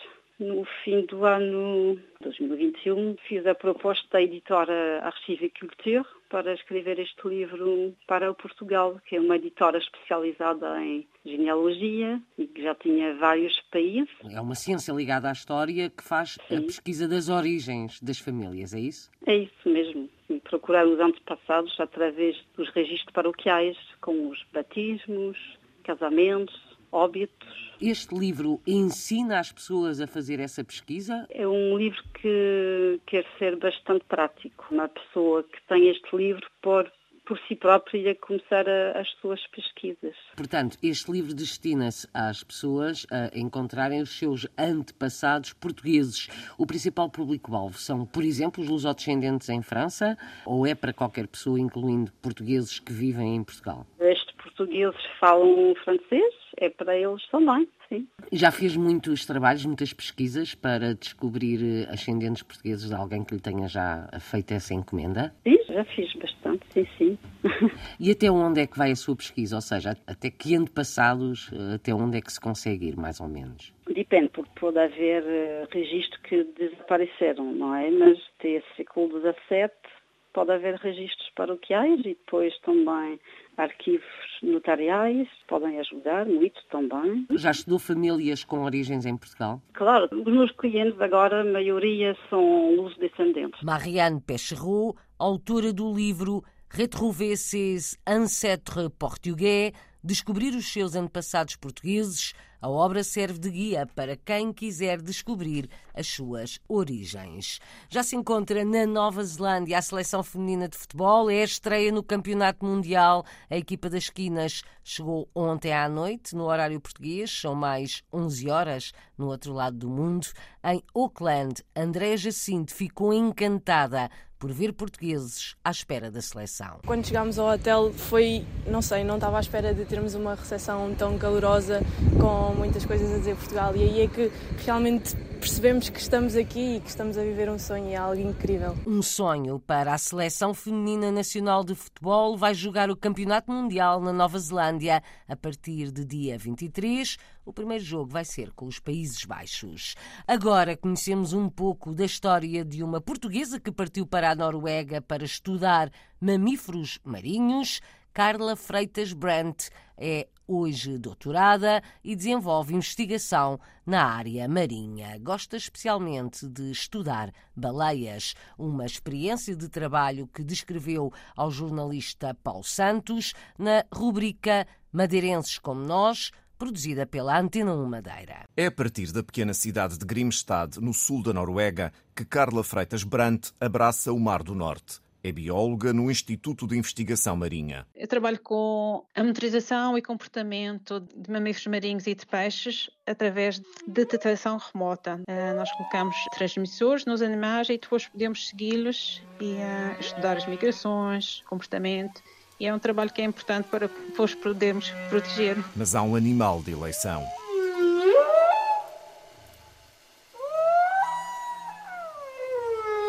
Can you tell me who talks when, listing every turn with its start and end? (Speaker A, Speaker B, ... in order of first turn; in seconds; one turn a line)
Speaker A: 0.4-14.1
Speaker B: 14.2-19.1
Speaker A: 19.3-27.7
Speaker B: 27.8-31.3
Speaker A: 31.3-40.2
Speaker B: 40.4-53.9
Speaker A: 54.0-58.1
Speaker B: 58.3-65.3
Speaker A: 65.5-67.7
Speaker B: 68.0-73.7
Speaker A: 73.9-79.8
Speaker A: 80.3-87.3
Speaker B: 87.3-89.6
Speaker A: 89.8-93.6
Speaker B: 93.6-126.8
Speaker C: 126.9-138.8
Speaker B: 138.8-178.4
Speaker D: 178.6-187.8
Speaker E: 188.0-205.7
Speaker D: 205.8-207.3